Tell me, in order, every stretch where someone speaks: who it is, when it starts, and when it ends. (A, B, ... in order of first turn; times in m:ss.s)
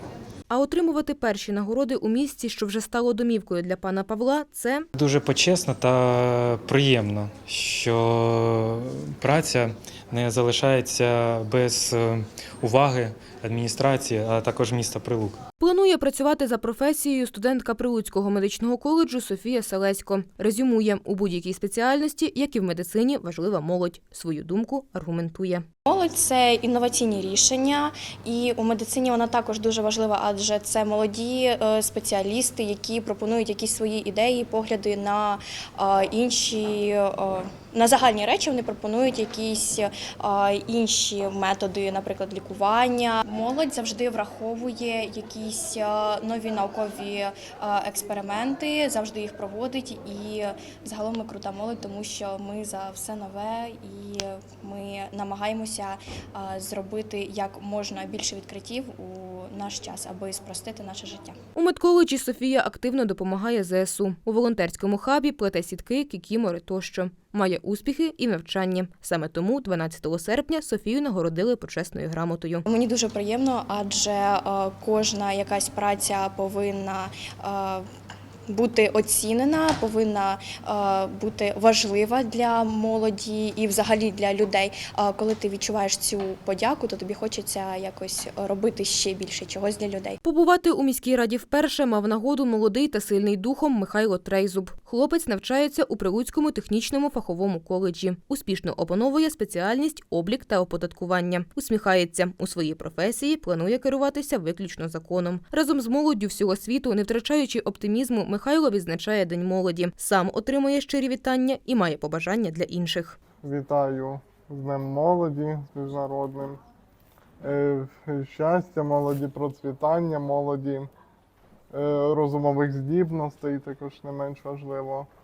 0:00.5-0:04.9 A
0:05.0-0:15.4 B
0:15.6-0:25.6 A
0:25.9-1:01.4 C
1:01.6-1:12.6 A
1:12.7-1:17.9 C
1:18.5-1:30.2 C
1:30.2-1:53.2 A
1:53.4-1:56.6 D
1:57.4-2:00.9 D
2:01.7-2:05.1 D